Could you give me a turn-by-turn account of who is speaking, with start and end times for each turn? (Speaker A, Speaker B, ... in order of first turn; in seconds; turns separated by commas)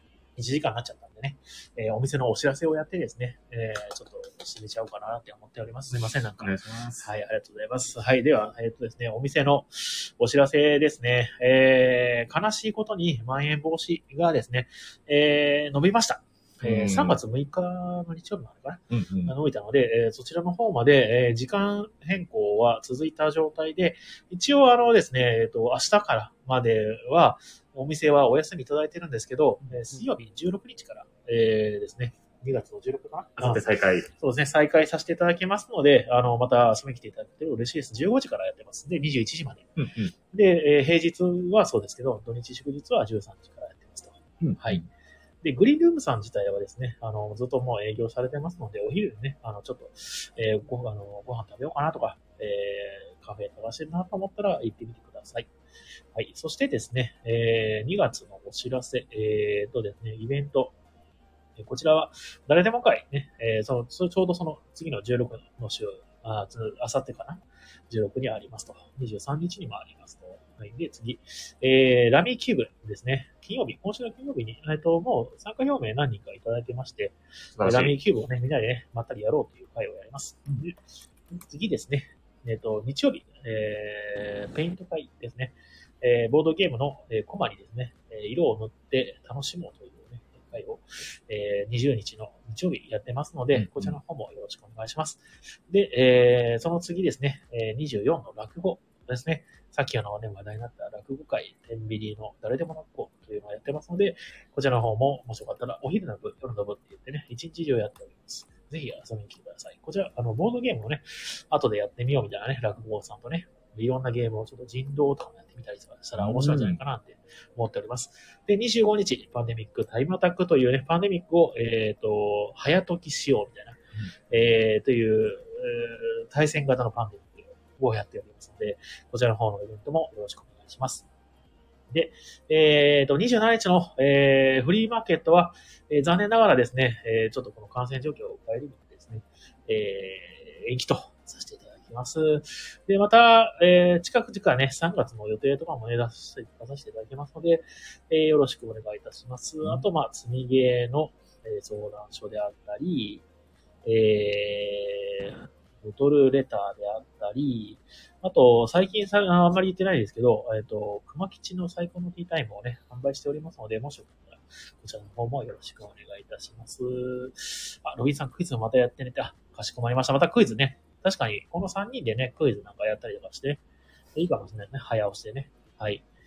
Speaker A: 0.4-39.7, Speaker B: 6.4-7.1, Speaker B: 16.6-17.2, Speaker B: 18.9-19.3, Speaker B: 33.4-34.1, Speaker B: 39.8-40.1, Speaker A: 40.3-44.9, Speaker B: 44.4-44.9, Speaker A: 45.4-55.5, Speaker A: 56.1-60.8, Speaker A: 61.6-80.8, Speaker B: 77.6-78.0, Speaker A: 81.3-131.1, Speaker B: 93.5-94.0, Speaker B: 116.2-116.8, Speaker A: 131.9-153.2, Speaker A: 153.8-173.6, Speaker A: 174.2-176.0